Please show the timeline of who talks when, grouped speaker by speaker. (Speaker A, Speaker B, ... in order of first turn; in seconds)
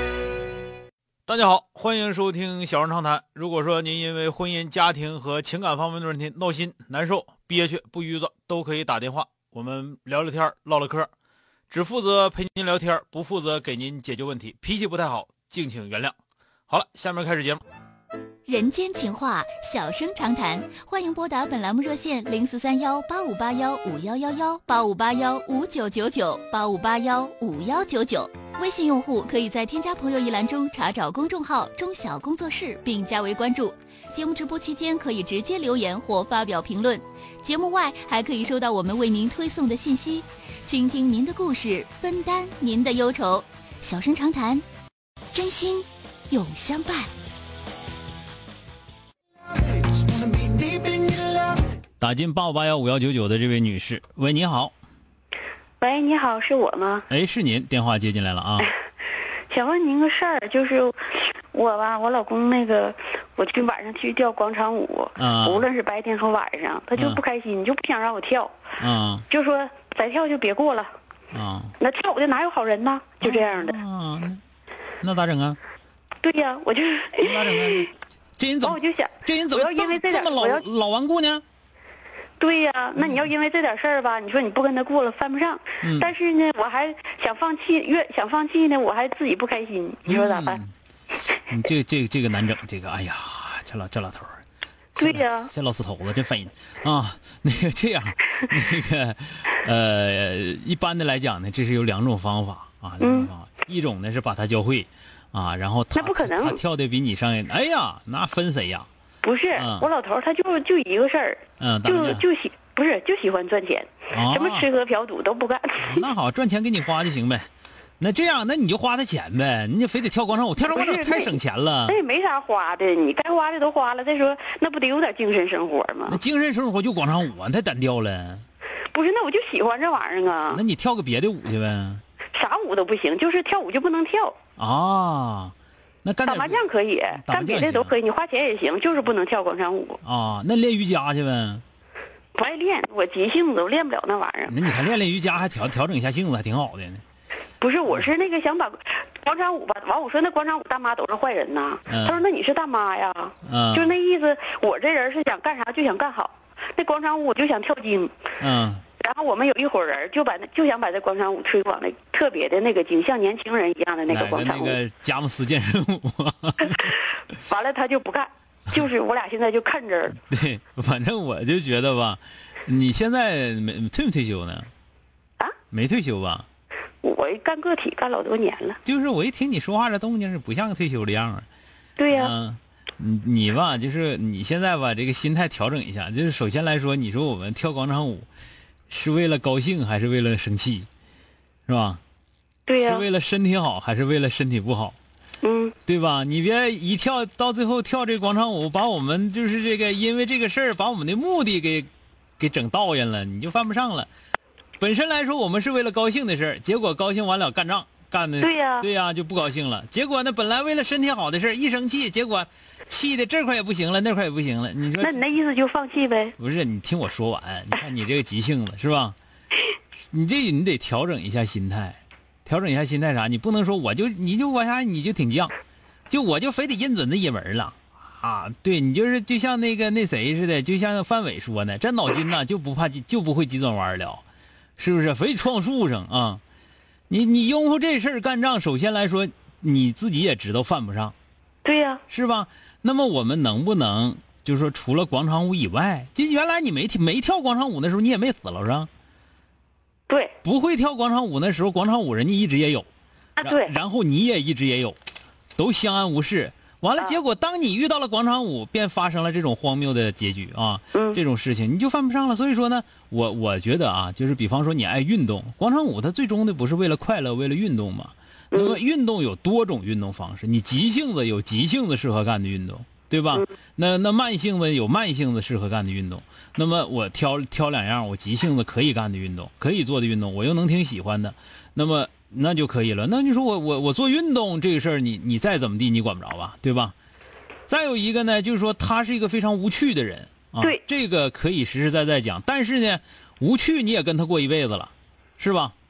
Speaker A: 1.3-11.1, 11.7-16.1, 16.7-17.6, 52.0-54.7, 57.1-58.7, 65.2-65.7, 67.0-67.2, 68.8-69.2, 71.3-71.7, 73.2-74.4, 75.0-75.6, 77.2-81.4, 83.0-83.2, 85.8-86.1, 90.1-90.7, 91.5-94.4, 95.0-108.9, 109.5-109.9, 111.6-112.2, 114.1-114.7, 115.8-117.5, 118.0-122.0, 126.1-128.4, 130.5-132.0, 134.6-137.9, 140.0-141.6, 144.5-147.0, 151.9-152.2, 153.4-153.9, 158.4-158.8, 164.1-166.9, 170.2-174.7, 175.7-176.4, 178.8-181.4, 182.1-188.3, 188.9-190.9, 191.7-192.0, 192.8-195.0, 195.9-201.9, 202.4-204.1, 204.8-215.3, 216.4-219.2, 220.1-225.5, 226.1-234.2, 234.8-236.4, 237.1-241.1, 242.1-248.9, 250.4-252.9, 253.4-255.0, 255.6-286.9, 287.7-295.7
Speaker B: 18.5-44.6, 45.3-47.1
Speaker C: 55.8-57.1, 59.5-68.5, 69.3-70.9, 71.8-73.7, 76.2-77.8, 78.6-80.6, 82.4-90.6, 95.0-95.5, 103.0-103.3, 105.9-106.6, 109.2-116.1, 120.6-126.2, 128.9-130.6, 132.3-134.3, 136.2-140.0, 142.3-144.6, 147.6-158.1, 159.0-164.8, 167.4-170.2, 177.0-178.8, 182.0-182.3, 192.7-193.1, 195.4-195.7, 208.4-208.9, 215.0-216.3, 241.6-242.0, 250.1-250.3, 253.4-253.7, 260.9-261.2, 268.5-268.8